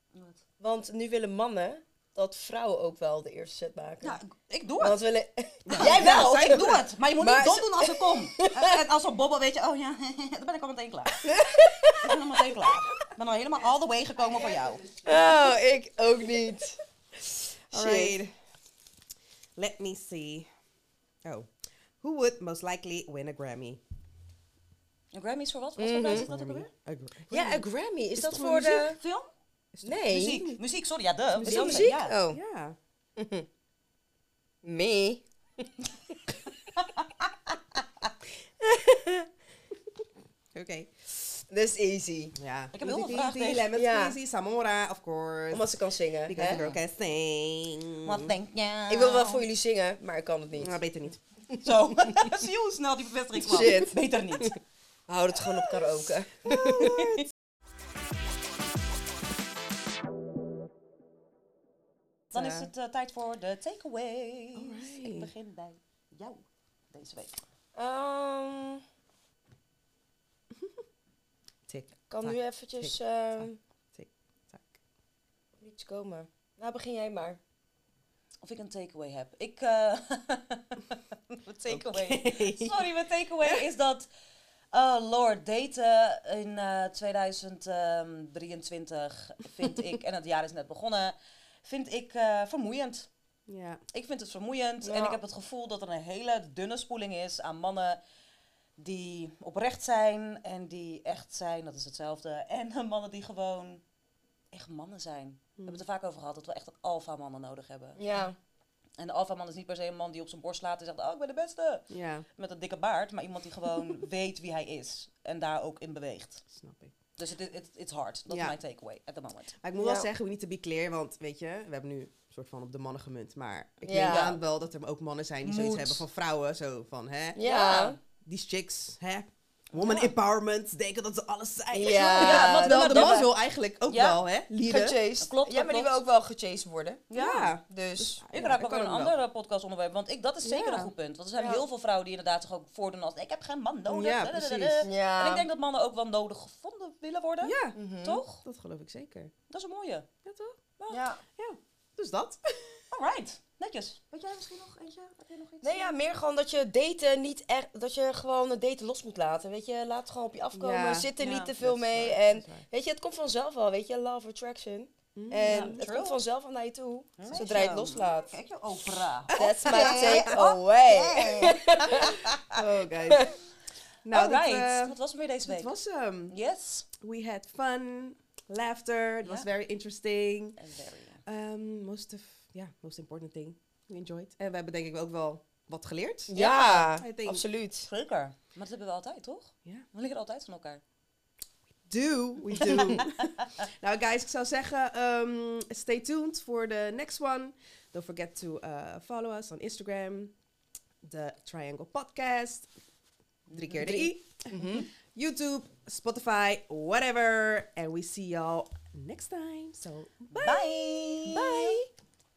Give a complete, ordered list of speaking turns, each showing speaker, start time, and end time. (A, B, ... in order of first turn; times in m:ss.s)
0:00.1-0:00.4 A
0:00.6-0:04.2 B
0:04.0-0:05.0 A
0:04.8-0:08.8 B
0:05.6-0:06.8 C
0:05.7-0:14.9 A
0:11.2-0:12.2 B
0:14.5-0:15.5 C
0:15.0-0:18.2 B
0:17.7-0:18.3 C
0:19.6-0:20.5 C
0:21.2-0:21.5 C
0:22.0-0:23.8 C
0:25.1-0:26.7 A
0:25.8-0:26.2 B
0:26.1-0:28.9 C
0:27.3-0:29.0 B
0:28.6-0:29.3 A
0:29.7-0:30.6 C
0:29.8-0:30.5 B
0:30.1-0:32.1 A
0:31.3-0:32.8 C
0:31.4-0:32.4 B
0:33.2-0:33.4 B
0:34.6-0:35.7 B
0:36.8-0:37.0 A
0:38.6-0:39.3 B
0:40.5-0:40.9 C
0:41.5-0:42.3 B
0:42.4-0:45.7 C
0:42.7-0:43.7 A
0:43.7-0:44.2 B
0:45.5-0:46.6 B
0:46.2-0:48.3 C
0:46.4-0:46.8 A
0:48.0-0:49.4 A
0:48.9-0:50.8 B
0:50.6-0:51.2 C
0:51.5-0:51.9 B
0:51.6-0:54.6 A
0:53.4-0:54.0 B
0:55.1-0:57.2 B
0:56.4-0:57.3 C
1:02.3-1:07.4 A
1:02.3-1:02.7 C
1:04.6-1:05.3 C
1:07.8-1:08.8 B
1:10.5-1:10.8 C
1:11.7-1:14.8 C
1:12.1-1:13.6 B
1:15.6-1:17.4 B
1:18.4-1:24.1 A
1:21.7-1:22.9 C
1:24.7-1:33.1 A
1:33.5-1:33.8 C
1:33.9-1:38.0 A
1:34.8-1:35.2 B
1:38.8-1:43.8 A
1:44.5-1:48.0 A
1:45.6-1:45.8 C
1:48.0-1:48.4 B
1:49.0-1:51.8 A
1:51.9-1:52.2 C
1:52.4-1:56.4 A
1:56.5-1:56.9 C
1:57.2-1:59.6 A
1:58.3-1:58.6 C
1:59.6-2:07.4 C
1:59.8-2:00.1 B
2:03.8-2:04.3 B
2:03.9-2:04.4 A
2:05.4-2:06.0 A
2:07.3-2:08.0 B
2:07.4-2:08.0 A
2:08.2-2:15.0 C
2:09.7-2:10.1 A
2:11.7-2:13.2 B
2:11.8-2:13.3 A
2:13.9-2:14.2 A
2:14.6-2:17.0 B
2:15.2-2:16.0 A
2:17.1-2:17.6 A
2:17.1-2:19.2 C
2:17.7-2:18.2 B
2:18.3-2:28.4 A
2:20.4-2:20.9 C
2:21.4-2:21.6 B
2:23.9-2:24.9 C
2:24.8-2:25.5 B
2:27.4-2:27.8 C
2:27.7-2:28.2 B
2:28.4-2:29.3 C
2:29.5-2:30.1 A
2:30.2-2:30.6 C
2:30.8-2:31.1 A
2:30.9-2:31.2 B
2:31.4-2:32.8 C
2:32.9-2:36.0 A
2:35.6-2:48.3 B
2:40.6-2:42.6 C
2:41.2-2:41.6 A
2:45.1-2:45.8 C
2:45.4-2:46.2 A
2:47.2-2:52.5 A
2:49.3-2:50.5 C
2:49.3-2:53.4 B
2:52.6-2:53.3 C
2:54.0-2:56.3 C
2:54.1-2:55.7 A
2:56.3-2:56.9 A
2:57.0-3:00.6 C
3:00.6-3:01.2 A
3:01.2-3:07.4 C
3:06.3-3:07.9 B
3:06.3-3:06.8 A
3:07.9-3:10.8 A
3:11.9-3:20.3 C
3:12.6-3:13.5 A
3:12.6-3:13.0 B
3:21.0-3:22.7 C
3:23.5-3:24.1 A
3:23.5-3:31.8 C
3:24.5-3:24.9 B
3:30.3-3:31.8 A